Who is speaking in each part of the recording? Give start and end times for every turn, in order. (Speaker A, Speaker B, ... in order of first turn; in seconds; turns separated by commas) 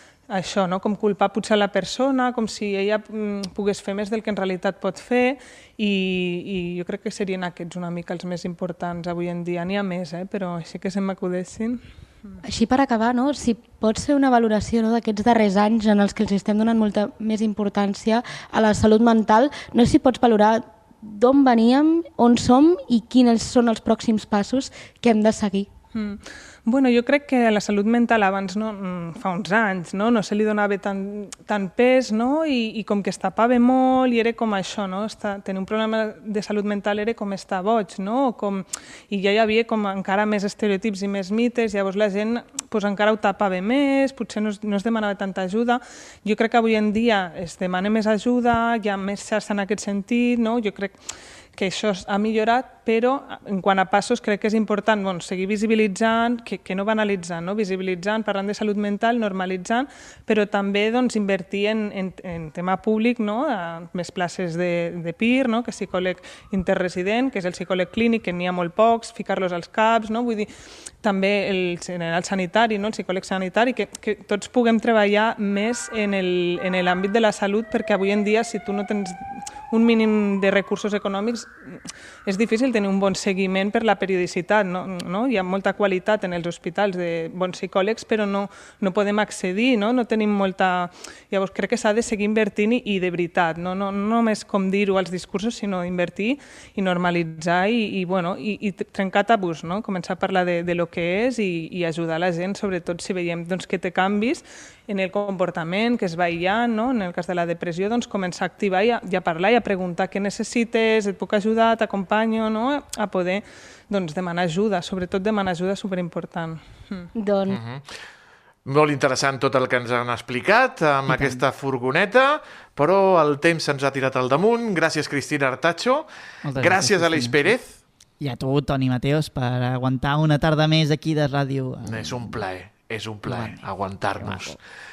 Speaker A: 0.3-12.3, Speaker B: 12.4-25.7, Speaker A: 25.9-51.0, Speaker A: 51.5-70.5, Speaker A: 71.0-117.1, Speaker B: 117.1-117.6, Speaker C: 117.5-117.9, Speaker C: 118.6-127.8, Speaker D: 121.1-121.4, Speaker D: 126.4-132.5, Speaker C: 131.8-134.6, Speaker D: 133.2-134.6